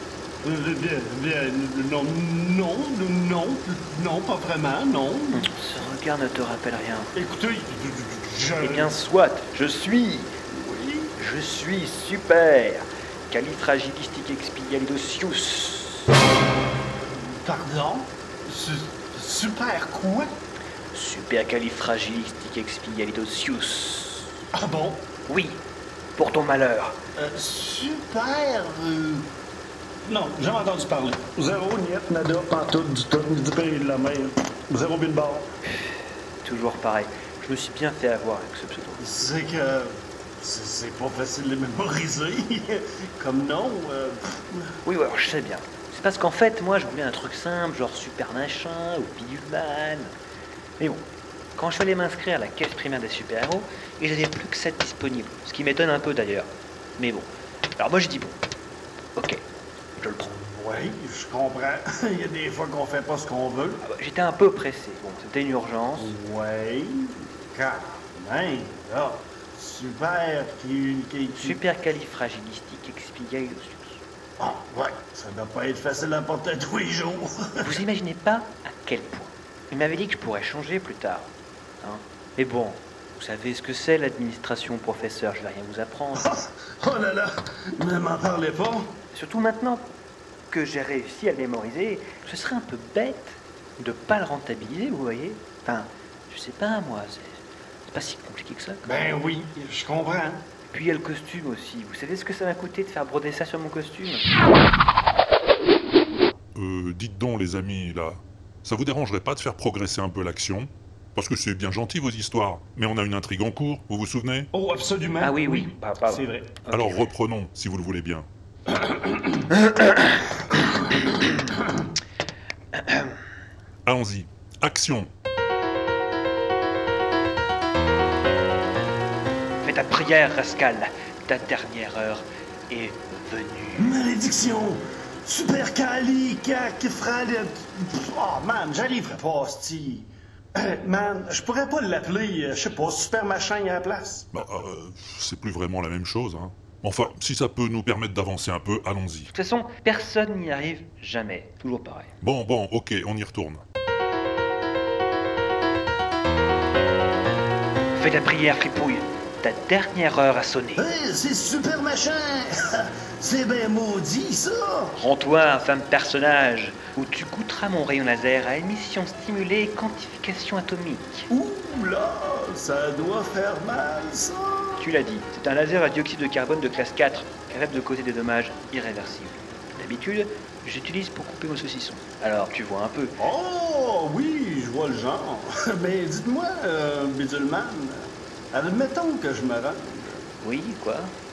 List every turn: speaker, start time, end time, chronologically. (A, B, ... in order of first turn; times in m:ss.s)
0:00.4-0:05.4 A
0:05.3-0:07.1 B
0:07.2-0:09.0 A
0:08.6-0:10.3 B
0:10.5-0:11.1 A
0:11.2-0:16.1 B
0:17.1-0:20.3 A
0:20.9-0:24.3 B
0:24.6-0:25.1 A
0:25.3-0:25.6 B
0:26.2-0:27.0 B
0:27.2-0:29.3 A
0:30.1-0:35.5 A
0:36.4-0:39.0 B
0:39.0-0:44.7 A
0:44.8-0:50.1 B
0:50.8-0:51.0 B
0:51.6-0:58.4 B
0:59.2-0:59.4 B
1:00.0-1:00.3 B
1:00.2-1:03.8 A
1:03.8-1:06.1 B
1:06.0-1:11.6 A
1:11.4-1:14.0 B
1:14.4-1:17.7 A
1:17.6-1:26.3 B
1:26.2-1:28.9 A
1:29.1-1:29.9 B
1:30.5-1:38.9 B
1:38.8-1:40.4 A
1:40.7-1:44.3 B
1:46.6-1:54.5 C
1:54.5-1:56.6 A
1:55.2-1:57.1 B
1:56.7-1:58.3 C
1:58.7-1:59.4 A
1:59.6-2:00.1 B
2:02.8-2:03.2 B
2:03.9-2:05.1 C
2:09.6-2:14.0 B
2:13.8-2:24.3 A
2:24.3-2:29.3 C
2:29.3-2:32.1 B
2:32.2-2:33.6 C
2:37.9-2:40.9 B
2:40.8-2:45.0 A
2:45.0-2:51.3 B
2:51.3-2:54.9 A
2:54.8-3:03.2 B
3:03.2-3:10.3 A
3:10.4-3:11.1 B